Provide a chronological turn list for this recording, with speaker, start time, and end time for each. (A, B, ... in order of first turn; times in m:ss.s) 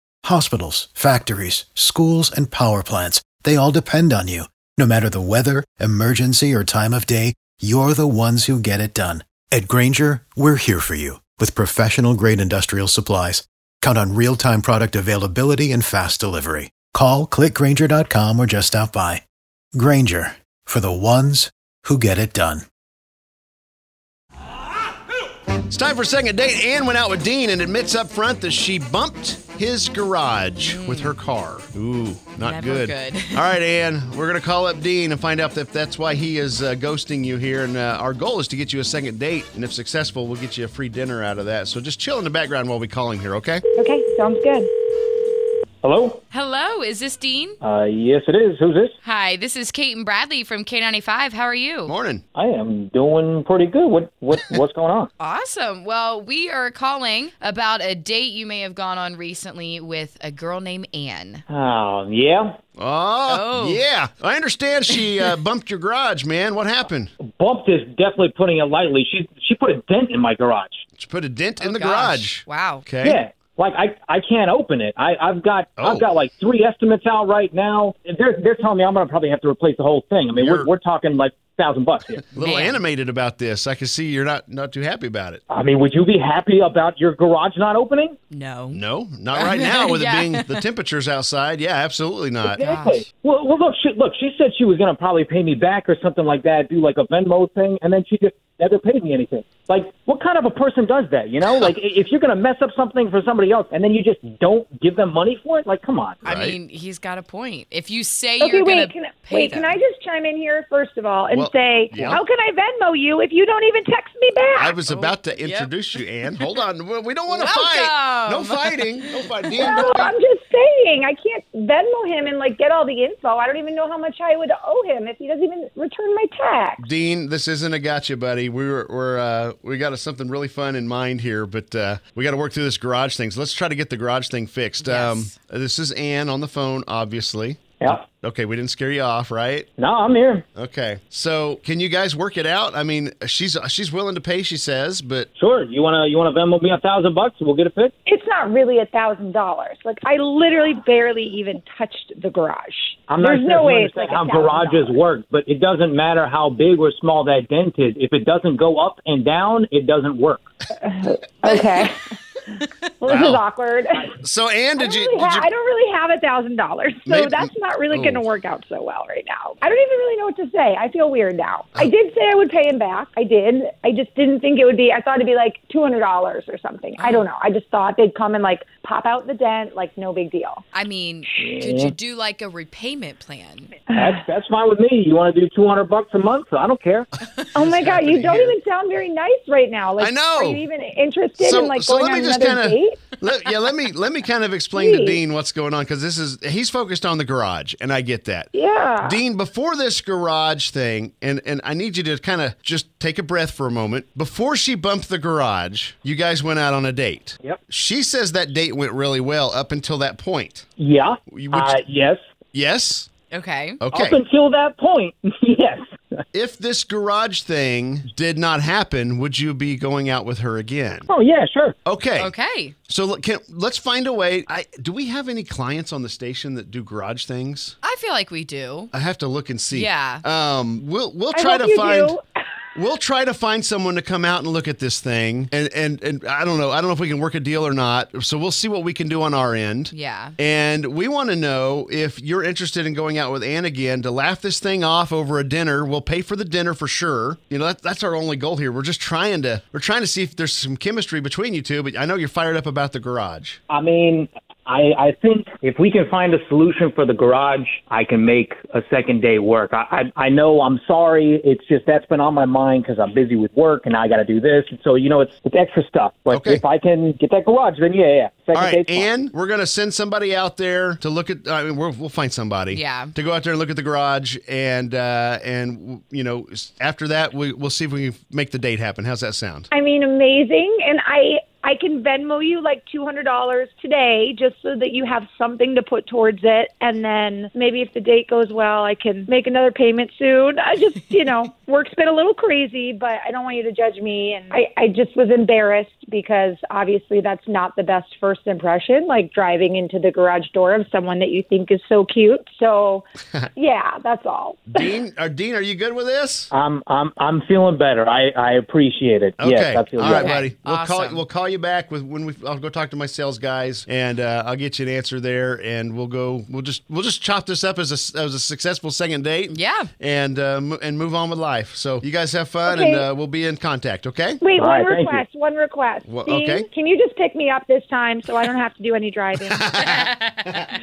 0:00.2-0:19.2 A
0:19.7-0:22.6 A
0:25.7-0:43.6 B
0:30.6-0:31.2 C
0:32.4-0:33.5 C
0:43.8-0:44.7 D
0:45.8-0:46.2 E
0:46.3-0:47.6 C
0:47.6-0:48.9 E
0:49.0-0:51.9 C
0:51.9-0:52.2 B
0:52.3-0:55.1 E
0:55.2-1:01.4 C
1:01.5-1:02.6 E
1:02.8-1:07.1 B
1:03.3-1:03.8 C
1:07.2-1:10.8 E
1:11.0-1:13.2 B
1:11.6-1:12.8 C
1:13.0-1:22.2 E
1:15.8-1:16.1 B
1:20.4-1:20.7 B
1:22.4-1:22.8 C
1:22.4-1:25.4 B
1:25.5-1:28.2 E
1:28.3-1:28.8 C
1:28.7-1:32.6 B
1:29.3-1:30.6 C
1:32.4-1:46.2 E
1:32.6-1:33.0 C
1:46.2-1:46.6 B
1:46.2-1:49.8 C
1:48.4-1:54.8 D
1:51.3-1:52.2 B
1:54.6-2:00.1 B
1:54.9-1:55.7 C
1:56.2-1:56.6 C
1:57.3-1:59.3 C
1:59.5-2:06.8 D
2:06.8-2:19.7 B
2:14.8-2:15.4 C
2:19.8-2:20.4 E
2:20.6-2:25.3 B
2:25.4-2:27.9 E
2:28.0-2:35.0 D
2:33.1-2:40.4 E
2:40.8-2:42.1 D
2:43.0-2:44.1 D
2:43.0-2:43.4 B
2:44.2-2:45.5 B
2:44.8-3:00.6 D
2:47.0-2:48.3 B
2:57.0-2:57.3 C
3:00.7-3:03.7 C
3:01.4-3:01.9 E
3:03.9-3:07.1 E
3:07.5-3:08.6 B
3:07.5-3:13.1 D
3:10.0-3:10.6 B
3:11.4-3:18.5 B
3:14.7-3:15.2 D
3:18.5-3:19.2 D
3:19.0-3:30.6 B
3:30.8-3:32.2 E
3:31.3-3:31.8 B
3:32.5-3:33.1 B
3:33.3-3:33.8 C
3:33.8-3:34.2 B
3:33.9-3:35.8 E
3:36.3-3:41.1 B
3:41.1-3:41.7 E
3:41.8-3:42.3 B
3:42.2-3:42.7 C
3:42.9-3:47.7 B
3:47.8-3:48.9 C
3:48.9-3:52.2 B
3:49.7-3:50.2 C
3:51.3-3:52.2 D
3:52.7-4:13.6 B
3:59.9-4:00.3 C
4:13.7-4:29.1 E
4:26.3-4:26.6 B
4:28.5-4:39.7 B
4:32.7-4:33.1 C
4:39.7-5:04.9 D
5:04.7-5:06.5 B
5:06.5-5:10.4 E
5:09.4-5:24.4 B
5:10.0-5:11.2 C
5:19.5-5:19.9 C
5:22.6-5:23.1 D
5:24.4-5:29.7 D
5:24.6-5:25.2 E
5:26.0-5:26.7 B
5:29.4-5:30.1 B
5:29.8-5:30.6 C